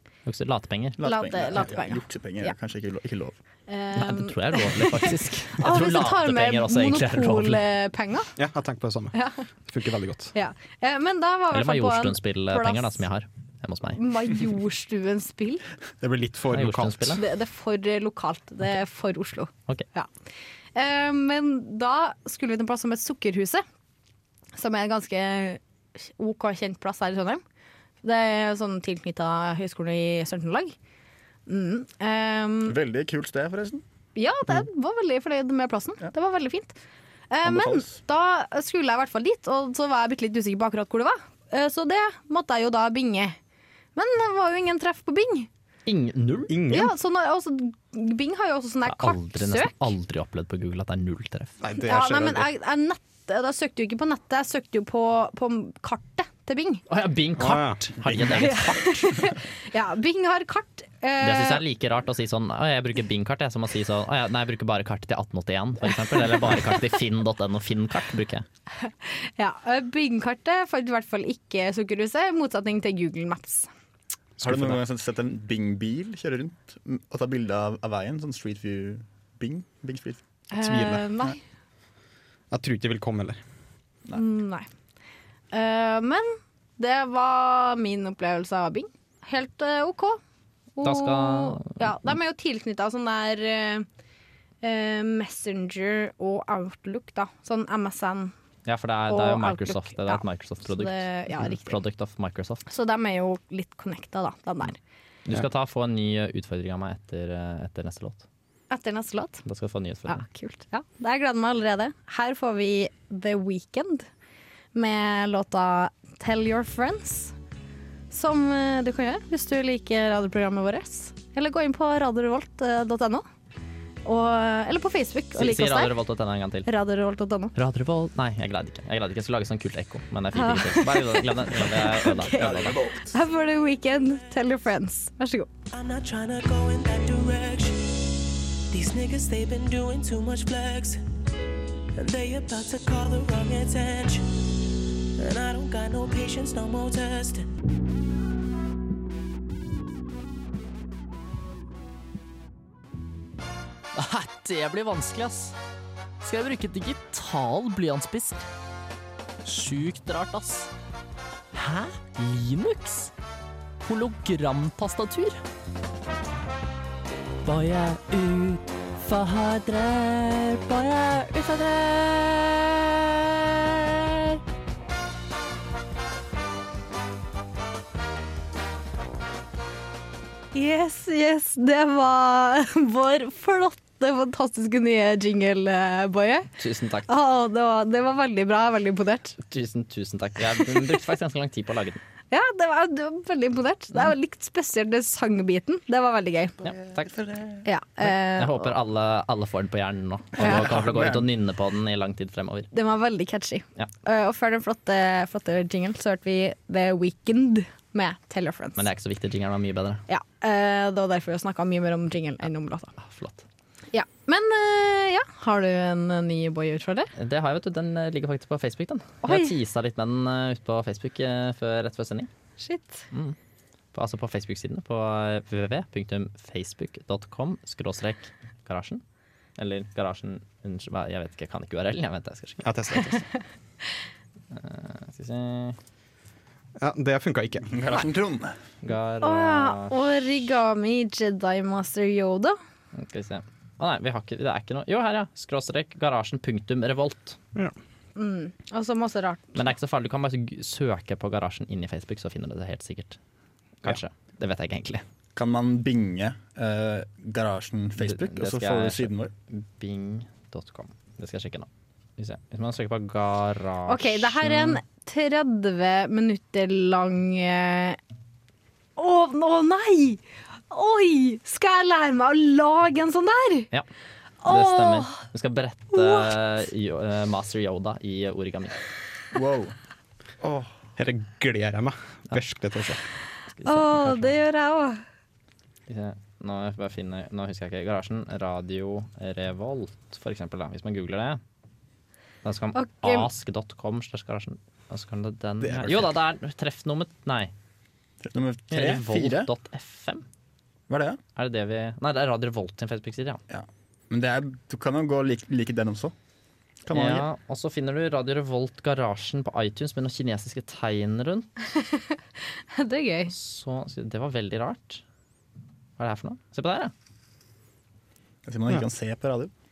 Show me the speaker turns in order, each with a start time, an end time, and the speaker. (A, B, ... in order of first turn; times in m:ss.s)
0:00.2-0:01.0 A
0:01.0-0:03.4 B
0:01.0-0:02.5 C
0:03.7-0:08.3 C
0:04.0-0:07.6 A
0:08.4-0:09.1 D
0:09.1-0:09.4 C
0:09.7-0:10.3 D
0:10.3-0:13.0 C
0:11.5-0:14.0 A
0:13.9-0:15.6 C
0:16.0-0:17.2 D
0:16.5-0:17.2 A
0:17.1-0:20.1 C
0:20.7-0:23.6 C
0:24.6-0:27.4 C
0:28.0-0:30.7 C
0:31.5-0:32.8 C
0:32.7-0:33.8 B
0:34.2-0:36.7 C
0:37.3-0:43.4 C
0:37.4-0:38.0 B
0:44.0-0:45.5 C
0:45.8-0:46.5 A
0:46.5-0:46.9 D
0:46.7-0:49.8 C
0:48.9-0:51.5 A
0:51.6-0:52.5 D
0:51.8-0:56.8 C
0:56.9-0:59.0 A
0:57.4-0:57.9 D
0:58.3-1:01.6 C
1:01.2-1:08.4 A
1:06.1-1:06.7 C
1:08.8-1:13.7 C
1:14.4-1:14.8 D
1:14.4-1:20.2 B
1:20.5-1:21.4 C
1:20.6-1:21.0 D
1:22.5-1:23.4 D
1:24.1-1:24.7 C
1:25.5-1:30.2 C
1:30.8-1:33.8 C
1:30.8-1:31.9 A
1:34.6-1:38.3 C
1:38.6-1:42.6 A
1:39.1-1:41.8 C
1:42.7-1:44.8 C
1:45.2-1:48.2 A
1:48.7-1:49.4 C
1:49.4-1:50.2 A
1:50.1-1:54.1 C
1:54.7-1:57.3 C
1:58.1-2:03.2 C
2:04.0-2:05.9 C
2:05.4-2:06.7 A
2:06.6-2:07.5 C
2:07.6-2:12.8 A
2:10.3-2:15.5 C
2:12.4-2:13.2 B
2:15.7-2:17.9 E
2:18.7-2:21.0 E
2:22.0-2:24.3 E
2:25.2-2:27.4 E
2:33.9-2:35.6 A
2:36.2-2:38.4 A
2:39.4-2:40.7 A
2:41.5-2:43.1 A
2:43.8-2:45.4 A
2:47.4-2:52.2 A
3:00.5-3:06.5 C
3:06.6-3:07.1 A
3:07.1-3:09.4 C
3:09.5-3:12.0 A
3:12.3-3:16.6 C
3:16.6-3:17.1 A
3:16.6-3:17.6 B
3:17.6-3:18.7 C
3:18.0-3:22.7 A
3:20.4-3:21.2 B
3:22.7-3:28.8 C
3:28.8-3:30.0 A
3:30.1-3:32.9 C
3:33.0-3:33.4 A
3:33.9-3:37.1 C
3:37.2-3:42.3 A
3:39.2-3:39.5 C
3:42.6-3:43.0 C
3:43.9-3:49.0 A
3:49.6-3:52.6 A
3:52.6-3:53.2 D
3:54.5-3:55.8 A
3:56.8-3:57.7 D
3:57.7-3:58.5 B
3:58.8-3:59.9 A
3:59.2-4:02.6 C
4:02.9-4:07.4 A
4:08.2-4:09.6 C
4:09.5-4:13.2 A
4:13.8-4:15.0 A
4:15.4-4:19.3 B
4:18.0-4:24.8 A
4:23.9-4:28.0 C
4:29.0-4:33.7 C
4:34.4-4:35.2 C
4:34.4-4:38.8 A
4:35.9-4:36.3 C
4:39.3-4:39.7 B
4:41.0-4:43.0 D
4:43.6-4:44.3 A
4:43.6-4:45.0 C
4:45.9-4:51.4 A
4:52.4-4:57.5 A
4:52.7-4:53.3 C
4:55.6-4:56.0 D
4:58.2-4:59.5 B
4:58.7-5:00.2 A
5:00.9-5:01.2 B
5:01.4-5:03.4 A
5:03.5-5:06.1 B
5:06.8-5:07.3 B
5:06.9-5:11.5 A
5:11.8-5:12.0 C
5:12.7-5:13.3 C
5:13.3-5:15.0 A
5:16.0-5:16.9 A
5:18.4-5:19.5 B